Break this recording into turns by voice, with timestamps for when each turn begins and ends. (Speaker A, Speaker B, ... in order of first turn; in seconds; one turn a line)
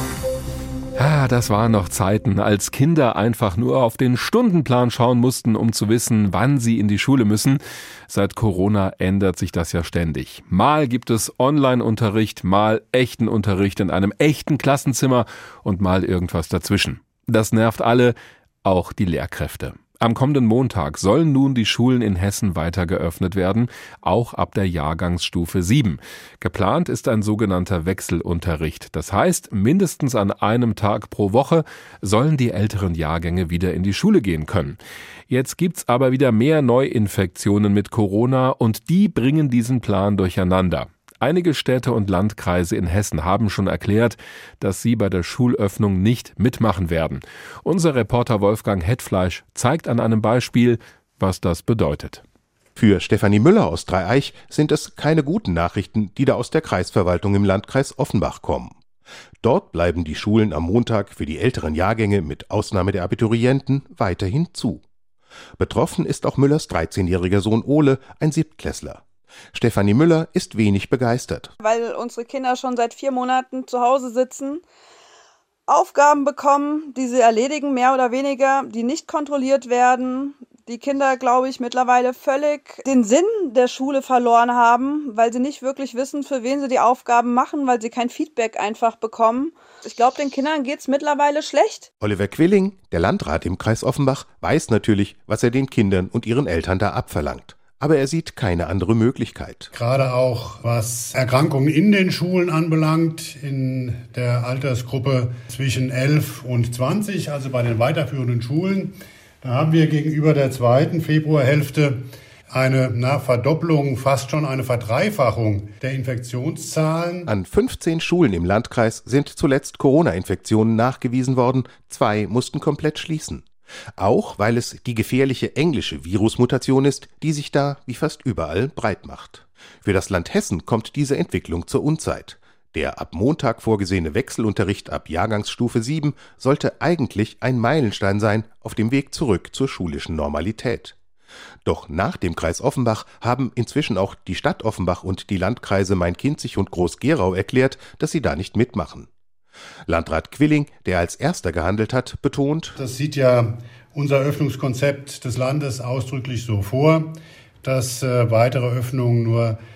Speaker A: 1.0-34.8
Speaker A: 35.3-52.2
Speaker B: 52.8-58.8
Speaker B: 59.4-64.8
Speaker B: 65.6-69.0
Speaker B: 69.5-71.5
Speaker C: 71.6-74.6
Speaker C: 75.7-91.9
Speaker B: 92.0-99.7
Speaker D: 99.7-112.0
Speaker D: 112.5-117.3
Speaker B: 117.3-123.5
Speaker B: 124.0-141.0
Speaker B: 141.7-149.1
Speaker B: 149.9-152.8
Speaker D: 152.8-157.1
Speaker D: 157.6-159.6